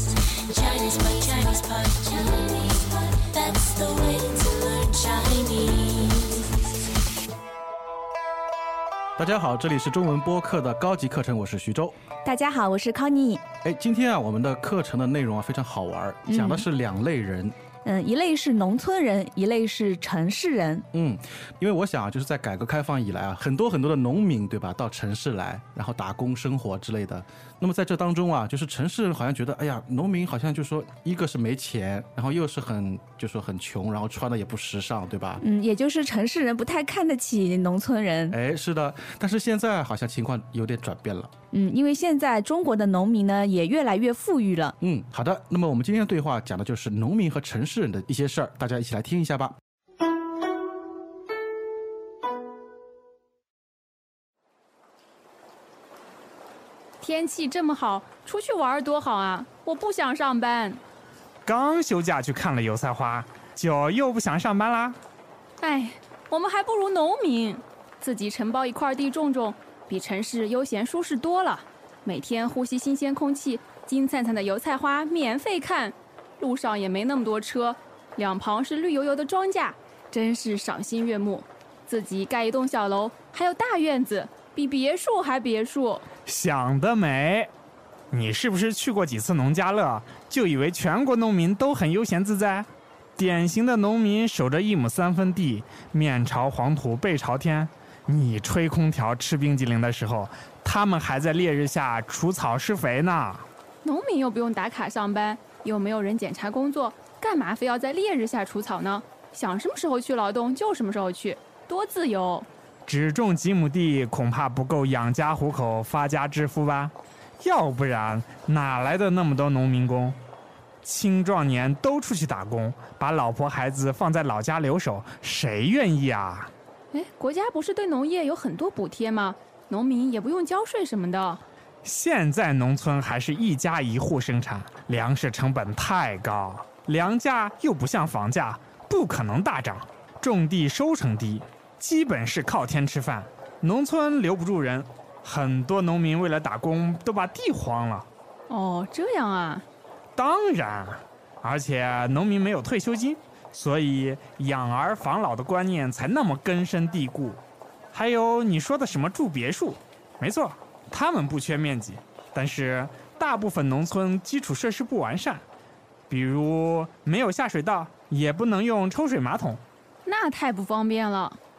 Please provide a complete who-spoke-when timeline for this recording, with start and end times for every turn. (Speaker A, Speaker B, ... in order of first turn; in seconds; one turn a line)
Speaker A: 0.5-6.3
Speaker B: 9.2-11.9
Speaker C: 12.2-13.4
Speaker B: 13.6-17.5
Speaker C: 16.3-16.7
Speaker C: 17.8-20.9
Speaker B: 20.9-35.4
Speaker C: 35.4-38.4
Speaker B: 38.3-41.3
Speaker C: 41.5-44.7
Speaker B: 44.8-49.6
Speaker D: 57.0-60.8
Speaker E: 61.5-65.0
Speaker D: 65.6-86.0
Speaker E: 86.2-87.5
Speaker E: 88.1-103.5
Speaker D: 103.8-112.5
Speaker E: 112.8-120.2
Speaker E: 120.8-126.5
Speaker D: 126.9-131.4
Speaker E: 131.8-148.1
Speaker D: 148.5-149.6
Speaker E: 150.2-157.4
Speaker E: 157.9-165.4
Speaker E: 166.1-169.6
Speaker D: 170.1-171.4